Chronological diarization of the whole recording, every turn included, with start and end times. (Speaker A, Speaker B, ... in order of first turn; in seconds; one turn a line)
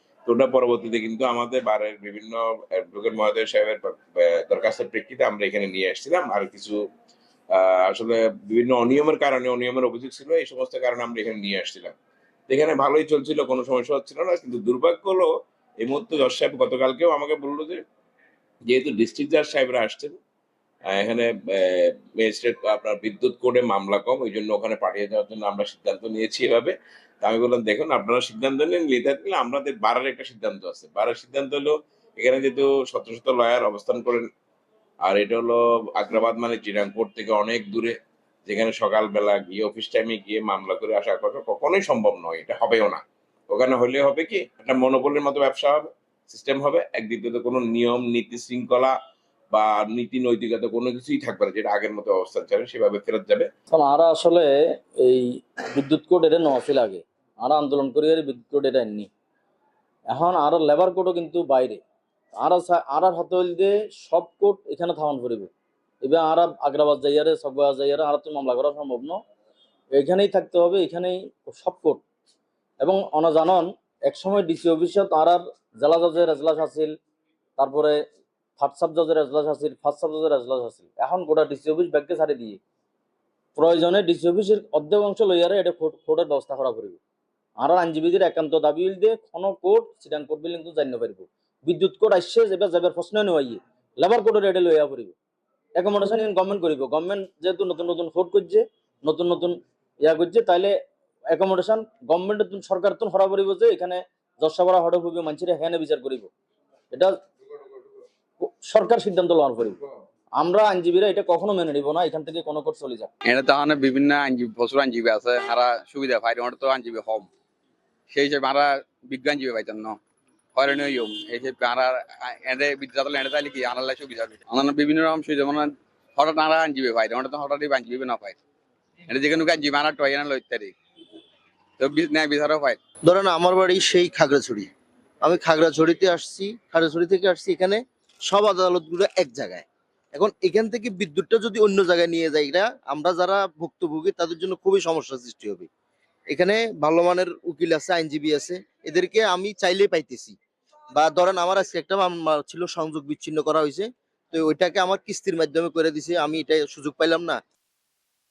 Speaker A: 0.3-6.8
Speaker A: 7.5-11.9
Speaker A: 12.5-15.3
Speaker A: 15.8-17.8
Speaker A: 18.7-20.2
Speaker A: 20.9-34.3
Speaker A: 35.1-38.0
Speaker A: 38.5-49.0
Speaker A: 49.5-53.5
Speaker B: 53.8-54.4
Speaker B: 55.8-59.1
Speaker C: 56.0-57.0
Speaker C: 58.5-58.7
Speaker B: 60.1-61.8
Speaker C: 60.8-61.8
Speaker B: 62.4-65.5
Speaker C: 63.1-63.7
Speaker C: 64.3-65.5
Speaker B: 66.1-69.1
Speaker C: 66.4-67.8
Speaker B: 70.0-72.0
Speaker C: 70.4-71.9
Speaker B: 72.8-76.9
Speaker C: 74.2-75.0
Speaker B: 77.6-77.9
Speaker B: 78.6-82.6
Speaker C: 80.0-80.9
Speaker B: 83.6-87.0
Speaker C: 84.4-85.2
Speaker B: 87.6-95.1
Speaker B: 95.8-100.7
Speaker B: 101.3-106.3
Speaker B: 108.4-109.8
Speaker B: 110.4-113.1
Speaker C: 113.2-117.3
Speaker C: 118.1-120.0
Speaker C: 120.5-128.4
Speaker C: 129.1-130.7
Speaker C: 131.8-132.8
Speaker D: 133.1-134.7
Speaker D: 135.2-145.7
Speaker D: 146.3-150.4
Speaker D: 150.9-157.4